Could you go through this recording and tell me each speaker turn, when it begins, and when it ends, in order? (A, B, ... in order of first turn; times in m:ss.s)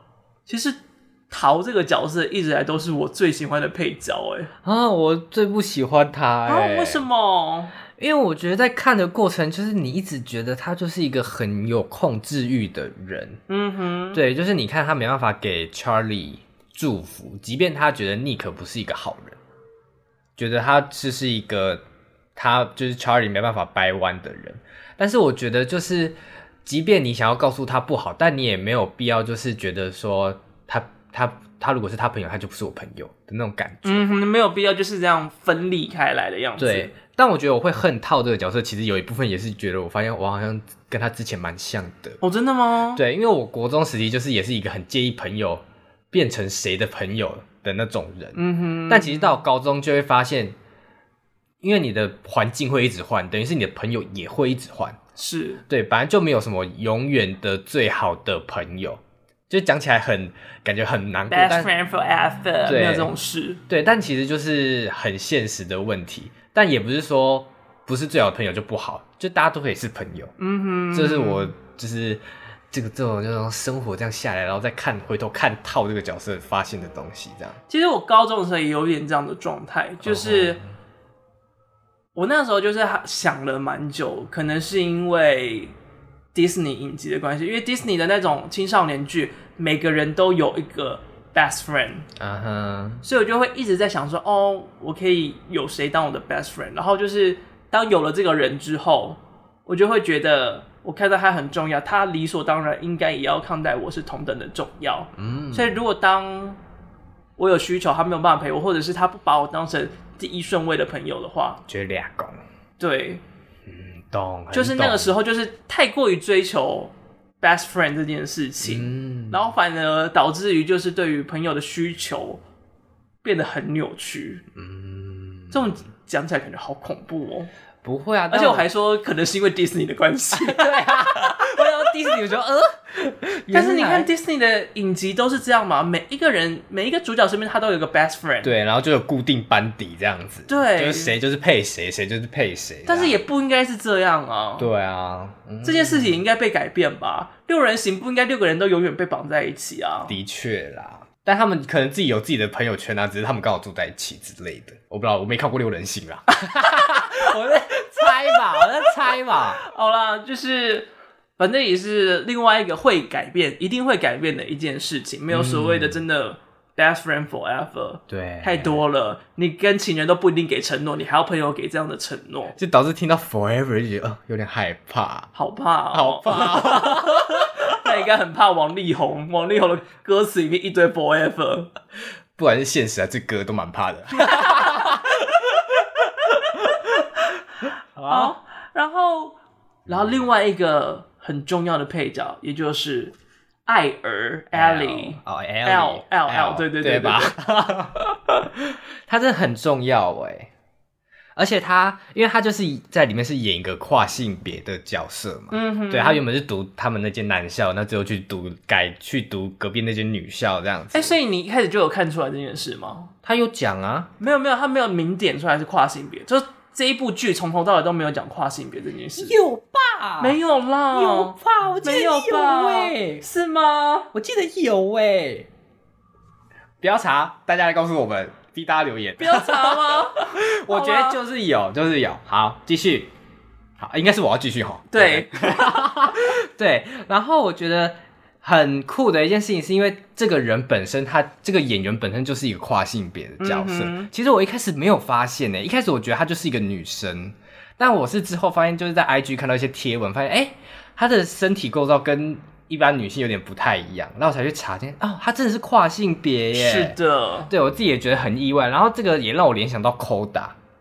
0:00.5-0:00.8 A
0:01.3-0:04.5 A
0:04.6-0:07.0 B
0:06.4-0:07.7 A
0:08.0-0:13.4 B
0:13.5-0:14.2 A
0:14.1-0:19.4 B
0:20.4-0:21.8 B
0:22.4-0:34.1 B
0:33.8-0:36.9 A
0:36.6-0:42.2 B
0:42.2-0:43.0 A
0:42.9-0:50.6 B
0:48.3-0:49.4 A
0:51.6-0:55.0 B
0:55.2-0:55.6 A
0:55.7-1:01.7 B
1:01.3-1:03.6 A
1:02.6-1:03.1 B
1:03.7-1:10.3 B
1:10.4-1:11.5 A
1:10.9-1:17.6 B
1:17.7-1:20.6 A
1:20.0-1:20.6 B
1:22.1-1:25.7 A
1:26.3-1:32.1 A
1:32.2-1:33.0 B
1:33.0-1:46.6 A
1:45.2-1:45.7 B
1:47.4-1:51.6 A
1:51.7-1:52.4 B
1:52.8-1:53.2 A
1:53.6-1:55.1 B
1:54.5-2:02.4 A
1:58.6-1:59.4 B
2:03.2-2:04.4 A
2:04.5-2:05.7 B
2:05.5-2:07.5 A
2:07.8-2:08.6 B
2:08.3-2:11.3 A
2:10.3-2:14.1 B
2:13.5-2:18.5 A
2:18.4-2:23.2 B
2:20.5-2:21.1 A
2:22.8-2:24.7 A
2:24.6-2:26.2 B
2:25.6-2:30.1 A
2:30.1-2:39.6 B
2:39.6-2:52.6 A
2:45.3-2:46.0 B
2:48.1-2:48.8 B
2:52.5-2:55.3 B
2:55.3-3:01.7 A
2:55.9-2:57.7 B
3:02.4-3:06.7 B
3:04.2-3:05.0 A
3:07.6-3:08.3 B
3:08.1-3:09.4 A
3:09.9-3:10.2 B
3:09.9-3:13.1 A
3:13.6-3:17.3 A
3:14.5-3:20.5 B
3:21.4-3:31.1 B
3:25.5-3:26.2 A
3:30.9-3:33.1 A
3:33.2-3:34.1 B
3:34.2-3:39.4 A
3:39.2-3:40.4 B
3:40.2-3:44.1 A
3:40.9-3:43.2 B
3:44.1-3:45.5 B
3:46.8-3:53.1 B
3:49.2-3:51.2 A
3:53.8-4:17.0 B
3:54.9-3:56.1 A
4:03.4-4:04.1 A
4:16.5-4:17.5 A
4:17.5-4:20.6 B